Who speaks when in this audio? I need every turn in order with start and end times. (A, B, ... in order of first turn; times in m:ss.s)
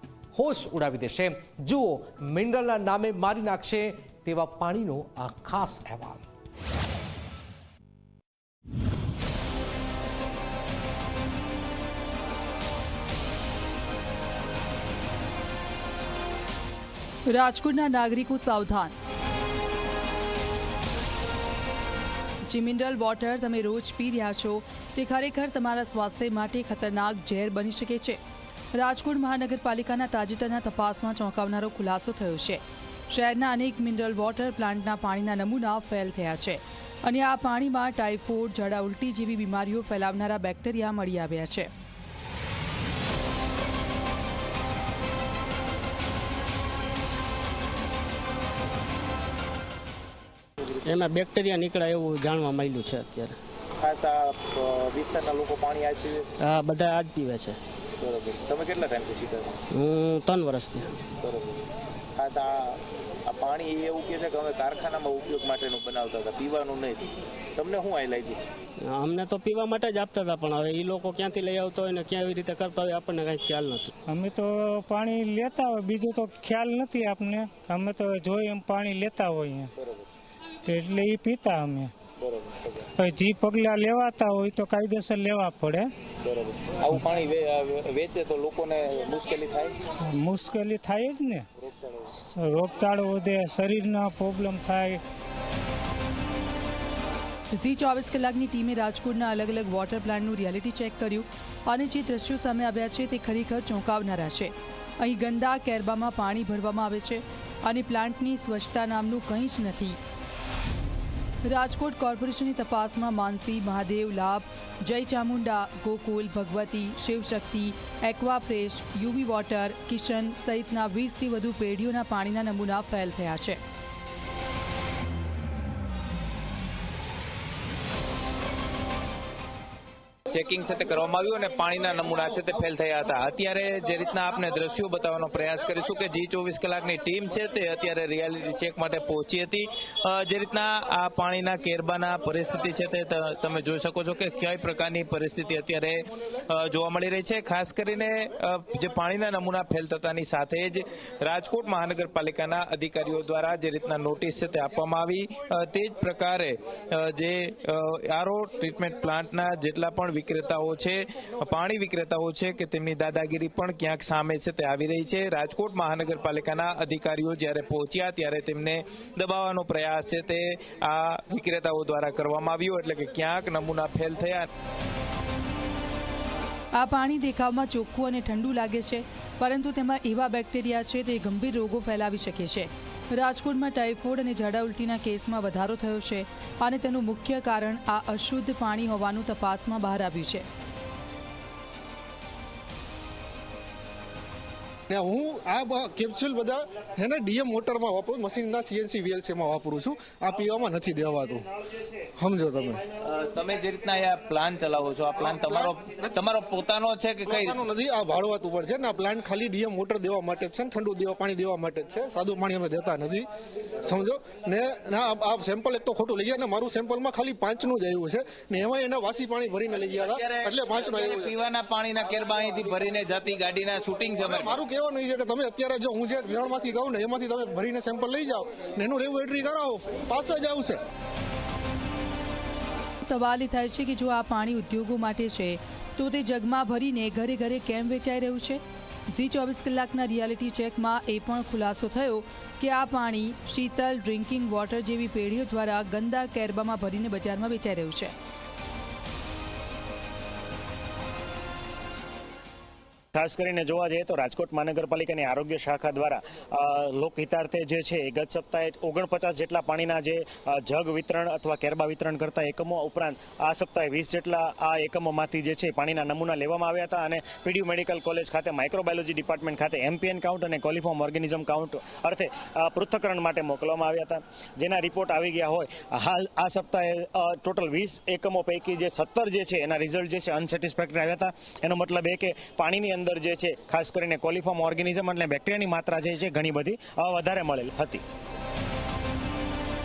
0:00.3-0:06.2 A
0:17.3-0:18.9 B
0:22.5-0:28.2 B
0:28.7-0:41.7 B
0:50.8-0:53.4 C
0:53.8-0:56.3 D
0:56.4-0:57.6 C
0:58.0-0:59.6 D
0:59.7-1:00.9 C
1:01.2-1:01.6 D
1:02.2-1:08.4 D
1:08.8-1:13.9 C
1:14.1-1:19.7 E
1:20.6-1:21.9 E
1:22.2-1:22.8 D
1:23.0-1:25.9 E
1:26.2-1:29.7 D
1:30.1-1:31.4 E
1:31.6-1:32.0 D
1:32.3-1:35.0 E
1:37.5-1:50.0 B
1:51.4-2:03.6 B
2:10.3-2:54.5 D
2:56.8-3:10.4 B
3:14.9-3:21.5 F
3:22.2-3:22.8 F
3:23.0-3:27.6 D
3:25.3-3:25.7 F
3:27.2-3:33.3 F
3:33.8-3:41.3 F
3:40.0-3:44.6 D
3:44.3-3:50.8 F
3:53.0-3:58.6 B
3:59.1-4:08.1 B
4:13.1-4:48.0 G